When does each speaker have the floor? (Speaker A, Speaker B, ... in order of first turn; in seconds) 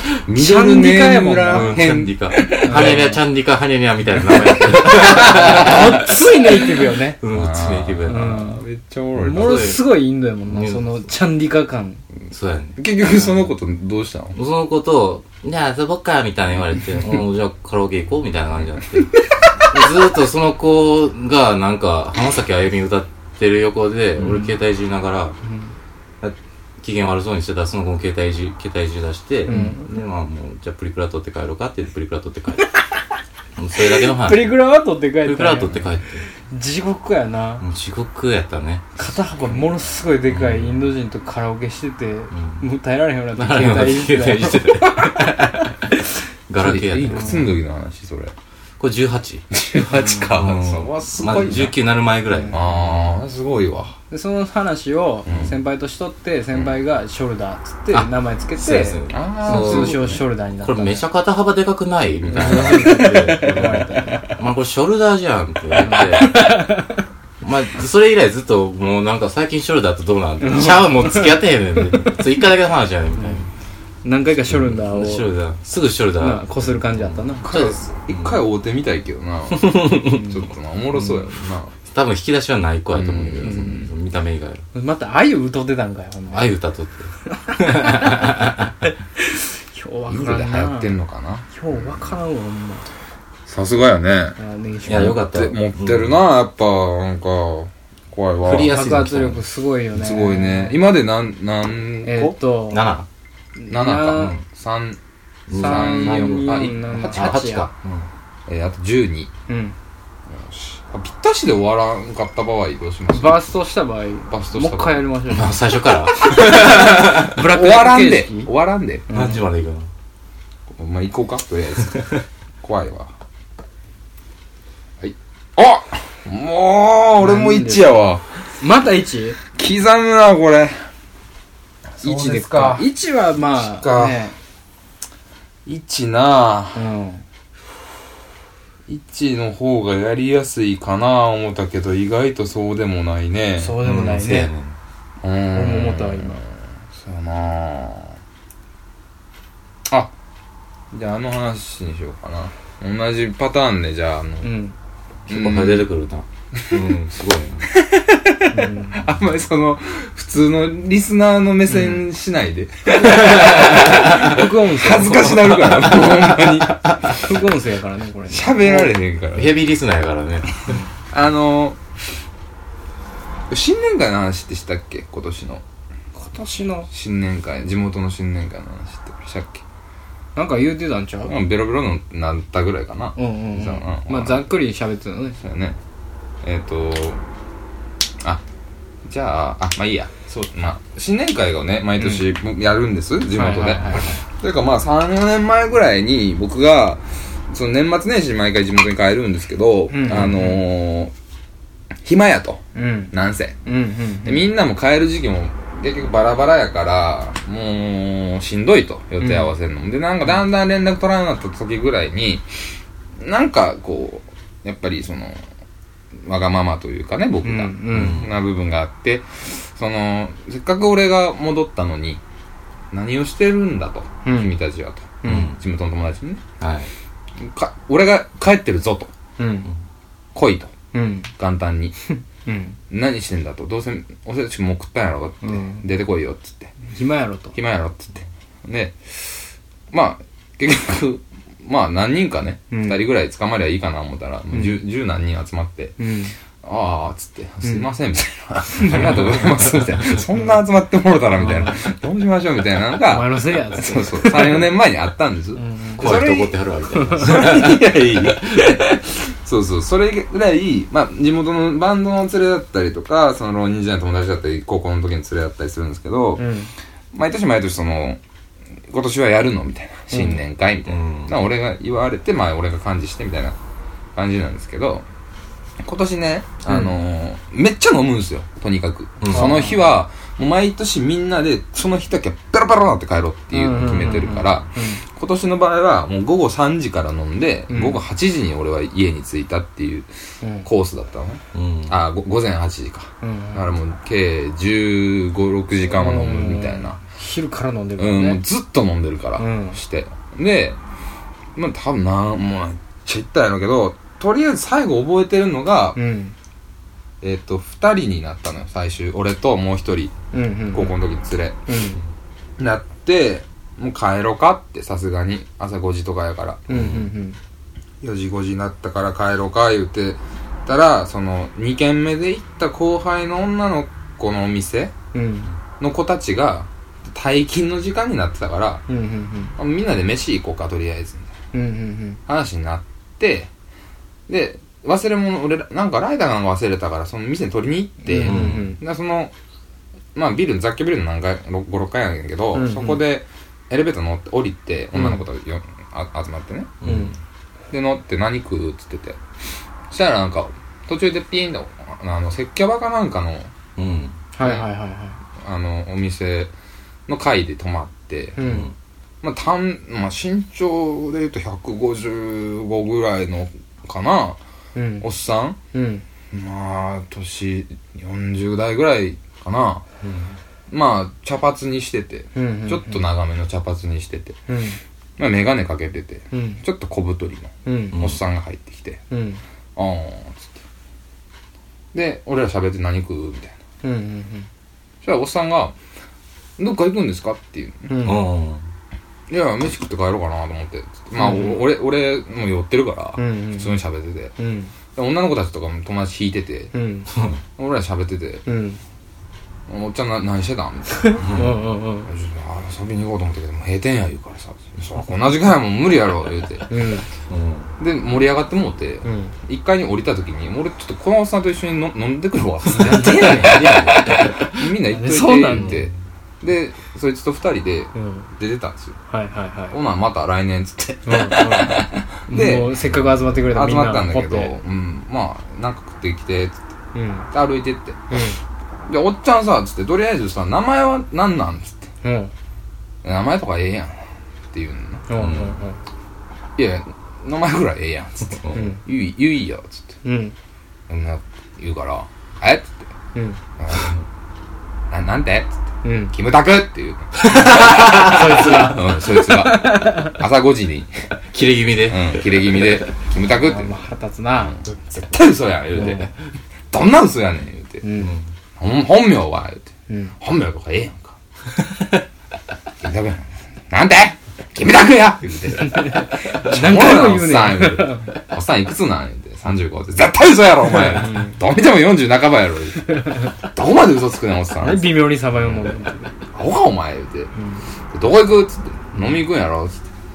Speaker A: 0.2-3.2, 4.4-5.9, 7.3-9.8, 12.8-14.4, 46.6-48.3, 49.5-51.8, 52.5-54.0, 55.3-55.5, 59.1-60.2, 62.2-63.1, 77.4-81.8, 82.9-83.8, 90.1-92.1, 93.5-98.8, 99.9-102.4, 103.7-105.0, 105.5-107.6, 108.5-109.3, 110.3-113.4, 114.3-115.0, 116.2-119.1, 120.7-123.1, 125.0-128.2, 129.6-130.8, 132.0-132.9, 133.6-134.2, 135.7-136.9, 138.9-143.8, 145.2-148.2, 149.9-150.1, 150.9-154.5, 155.3-155.9, 157.7-167.2, 168.3-169.7, 171.1-171.8, 173.5-175.6, 176.9-179.6, 181.2-184.5, 185.4-185.8, 186.4-187.2, 189.1-201.1, 202.0-203.6, 204.2-212.5, 213.2-215.4, 216.2-222.2, 222.9-226.4, 227.4-229.1, 230.3-230.7, 231.4-232.0, 232.9-236.7, 237.5-246.0, 246.6-256.6, 257.2-266.5, 267.1-268.2, 268.9-273.6, 274.1-275.1, 275.8-290.1, 290.6-297.0, 298.0-300.8, 301.6-306.0, 307.2-310.1, 310.7-311.6, 312.6-316.6, 318.0-324.9, 325.8-328.8, 329.6-331.3, 332.3-333.5, 334.3-339.3, 340.1-346.8, 347.7-349.2, 349.9-353.5, 354.4-354.7, 355.4-356.5, 357.1-358.5, 359.2-364.4, 365.0-365.6, 366.3-369.8, 370.7-374.4, 375.2-379.0, 379.8-380.6, 381.9-383.6, 385.0-385.8, 386.6-387.9, 389.3-394.3, 394.9-396.7, 397.6-398.4, 399.7-401.2, 402.1-406.7, 407.8-419.0, 419.7-422.8, 423.5-426.6, 427.3-428.3, 428.9-431.9, 433.0-435.1, 436.6-440.0, 440.9-442.9, 443.6-443.9, 444.9-445.6, 446.1-451.0, 451.9-453.7, 454.4-456.1, 456.7-457.9, 458.6-461.2, 462.8-474.9, 476.3-477.3, 477.9-479.9
Speaker B: 0.3-1.9, 2.5-3.2, 4.8-7.2, 8.1-8.6, 9.2-12.0, 24.2-24.5, 25.4-25.7, 29.5-29.9, 33.9-35.8, 36.5-37.6, 39.0-46.0, 47.0-47.4, 50.0-50.2, 51.2-51.6, 52.3-52.6, 54.1-61.0, 62.3-64.4, 65.8-67.0, 70.4-72.2, 74.0-75.3, 76.2-77.5, 80.1-80.4, 83.4-83.9, 84.7-86.5, 87.4-88.4, 89.2-90.9, 91.5-92.9, 94.4-95.2, 98.7-100.8, 102.0-102.9, 103.6-104.4, 105.5-107.7, 109.5-109.8, 113.1-118.5, 119.1-119.5, 127.2-128.0, 128.6-129.4, 132.0-134.4, 136.8-137.2, 143.6-144.5, 145.5-146.4, 154.4-154.8, 158.5-159.0, 161.7-162.0, 162.9-168.9, 176.2-176.9, 180.4-181.3, 183.2-185.4, 192.0-192.2, 193.3-194.2, 199.9-200.6, 202.8-203.1, 203.7-204.5, 209.2-209.5, 217.4-218.2, 224.2-224.6, 225.2-225.5, 229.4-229.7, 230.9-231.3, 232.1-232.8, 235.4-235.9, 236.9-237.6, 242.7-243.0, 244.5-244.8, 246.0-246.3, 247.6-247.9, 248.7-249.3, 251.4-251.8, 253.1-254.7, 255.6-256.2, 256.9-257.4, 266.4-266.7, 270.1-270.4, 276.7-276.9, 279.3-279.8, 283.5-285.0, 287.7-288.0, 290.4-290.7, 293.2-293.7, 295.9-298.4, 299.4-299.8, 306.0-306.3, 310.3-310.9, 311.7-312.0, 316.7-317.4, 325.1-325.5, 328.9-329.6, 331.5-332.2, 338.0-338.8, 342.5-343.0, 346.9-347.1, 354.3-355.2, 358.4-358.7, 364.8-365.1, 365.7-366.0, 372.4-373.0, 374.5-374.8, 376.3-376.6, 377.6-378.0, 379.1-379.4, 383.8-384.5, 387.9-388.2, 391.2-391.6, 393.2-393.8, 394.4-394.7, 396.7-397.1, 398.5-398.8, 401.0-402.1, 406.7-407.1, 409.1-409.4, 412.7-414.2, 414.9-415.8, 417.9-418.3, 419.1-419.8, 421.1-424.6, 426.9-427.3, 428.1-428.4, 432.0-432.3, 435.1-435.8, 438.5-438.8, 440.0-440.4, 443.1-443.4, 445.8-446.1, 447.7-450.2, 453.4-454.6, 455.8-456.1, 457.8-458.1, 459.9-460.1, 465.6-468.1, 470.7-471.4, 472.9-473.3, 474.6-476.1, 477.4-477.6, 478.9-479.2
Speaker C: 1.5-6.7, 7.2-8.5, 9.2-9.8, 10.5-11.0, 12.3-12.8, 14.3-25.4, 26.2-32.7, 33.6-34.6, 35.2-36.2, 37.6-39.7, 40.3-40.9, 42.3-42.6, 43.4-45.8, 46.5-47.5, 48.8-49.5, 50.3-53.1, 57.9-66.7, 67.4-73.5, 74.5-78.4, 79.5-80.3, 81.9-84.7, 86.3-88.7, 94.9-96.2, 98.4-99.4, 102.7-103.1, 104.1-104.4, 105.5-108.1, 115.3-117.4, 119.1-119.9, 143.8-144.8, 155.3-157.7, 163.5-164.0, 165.6-166.7, 169.3-170.7, 217.9-218.3, 225.2-225.6, 226.6-226.9, 256.0-258.8, 270.9-271.4, 279.2-279.6, 291.5-292.0, 316.7-317.1, 338.2-338.7, 346.8-347.2, 353.8-354.2, 358.4-358.7, 370.0-370.4, 377.9-378.2, 388.0-388.6, 397.1-397.4, 401.2-401.6, 407.3-407.7, 412.9-414.6, 415.5-415.9, 435.2-435.6, 447.2-448.6, 451.3-452.8, 458.0-458.3